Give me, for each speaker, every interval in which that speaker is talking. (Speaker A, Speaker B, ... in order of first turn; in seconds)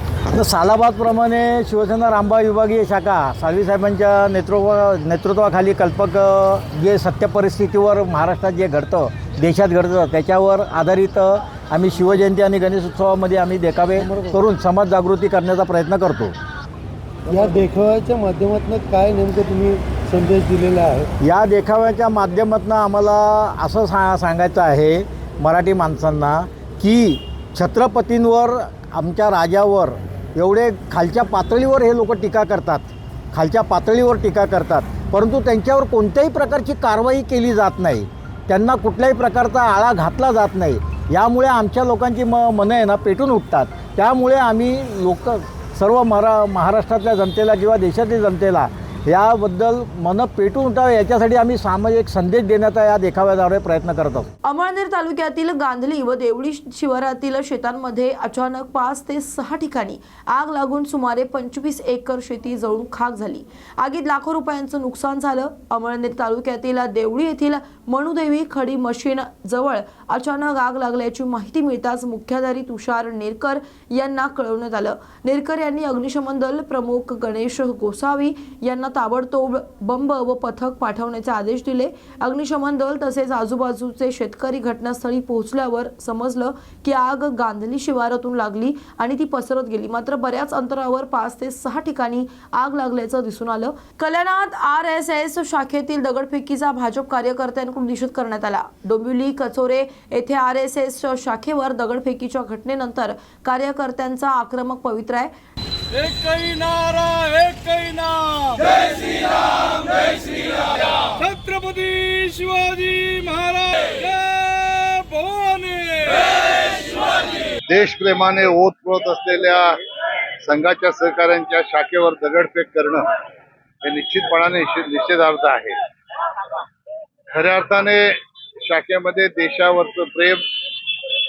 Speaker A: 0.3-16.3, 21.2-54.3
Speaker B: 14.0-14.3, 17.3-21.1
Speaker C: 54.4-105.3
Speaker D: 105.9-117.2
Speaker E: 117.7-119.8, 120.4-123.1, 123.8-125.8, 127.3-130.4